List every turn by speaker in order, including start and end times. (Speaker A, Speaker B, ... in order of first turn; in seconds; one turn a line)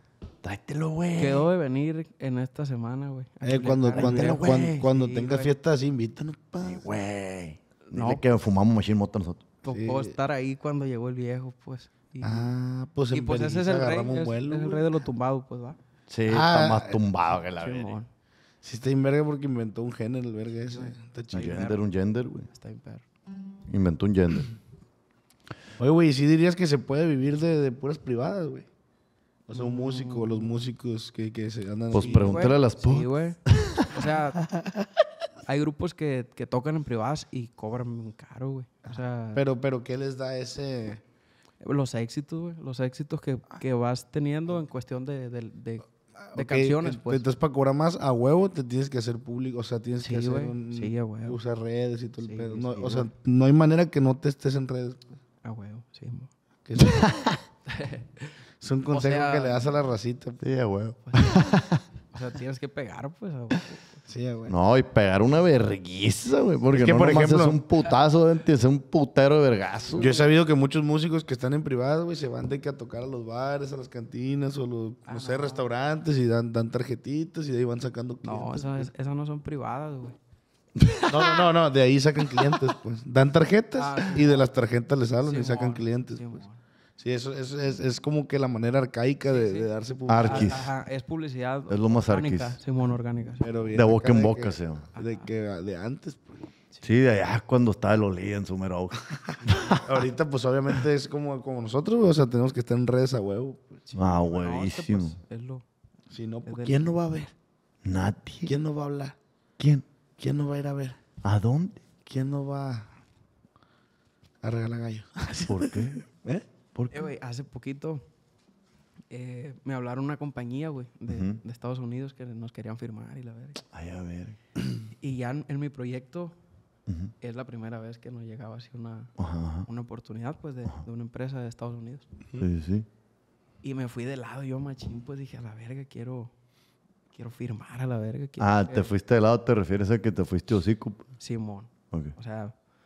Speaker A: 0.4-1.4
Speaker B: 1.1-5.5
Speaker C: 3.4-6.8
Speaker A: 3.9-4.9
Speaker A: 6.6-9.4
Speaker B: 7.8-8.2
Speaker B: 9.6-12.5
Speaker C: 9.7-10.2
Speaker C: 12.2-14.8
Speaker B: 13.1-15.8
Speaker A: 16.1-17.9
Speaker C: 16.3-17.0
Speaker B: 17.6-18.1
Speaker C: 18.6-21.6
Speaker B: 20.7-21.8
Speaker A: 21.3-22.5
Speaker B: 22.5-23.0
Speaker A: 23.7-24.5
Speaker C: 25.8-28.7
Speaker C: 29.5-32.5
Speaker B: 29.5-30.6
Speaker A: 31.9-33.9
Speaker B: 32.0-34.4
Speaker B: 35.5-39.4
Speaker C: 39.3-41.0
Speaker B: 41.6-47.2
Speaker C: 46.2-55.1
Speaker B: 50.0-51.4
Speaker B: 52.2-53.1
Speaker B: 55.4-56.3
Speaker C: 56.6-57.3
Speaker A: 56.8-57.4
Speaker B: 57.7-58.4
Speaker C: 58.6-60.4
Speaker B: 58.9-59.6
Speaker A: 60.4-61.8
Speaker B: 61.0-61.5
Speaker B: 62.1-64.0
Speaker C: 64.1-64.5
Speaker A: 64.5-70.1
Speaker C: 66.7-67.6
Speaker B: 69.9-70.3
Speaker C: 70.0-78.9
Speaker B: 75.0-75.7
Speaker B: 78.2-80.2
Speaker A: 80.8-81.5
Speaker C: 81.1-86.4
Speaker B: 83.7-84.5
Speaker B: 85.2-86.6
Speaker C: 87.0-90.6
Speaker B: 89.3-89.7
Speaker A: 90.1-90.7
Speaker B: 90.2-93.5
Speaker A: 91.7-92.6
Speaker C: 93.4-96.5
Speaker A: 93.7-94.8
Speaker B: 95.0-95.3
Speaker A: 96.8-100.0
Speaker C: 99.8-103.8
Speaker B: 103.8-105.6
Speaker A: 104.0-105.2
Speaker C: 106.1-107.3
Speaker B: 106.5-106.9
Speaker A: 107.8-108.5
Speaker C: 108.5-109.2
Speaker A: 109.6-109.8
Speaker C: 110.2-111.0
Speaker A: 111.2-111.8
Speaker C: 112.0-112.9
Speaker C: 114.4-116.5
Speaker A: 115.5-116.0
Speaker A: 116.7-117.0
Speaker B: 116.9-118.0
Speaker B: 119.1-123.6
Speaker A: 121.1-121.4
Speaker A: 123.7-124.3
Speaker B: 125.0-126.3
Speaker B: 127.2-129.1
Speaker A: 129.2-129.7
Speaker B: 129.7-132.1
Speaker A: 132.4-132.8
Speaker B: 133.6-136.3
Speaker B: 137.1-138.9
Speaker A: 138.4-141.1
Speaker B: 141.2-142.5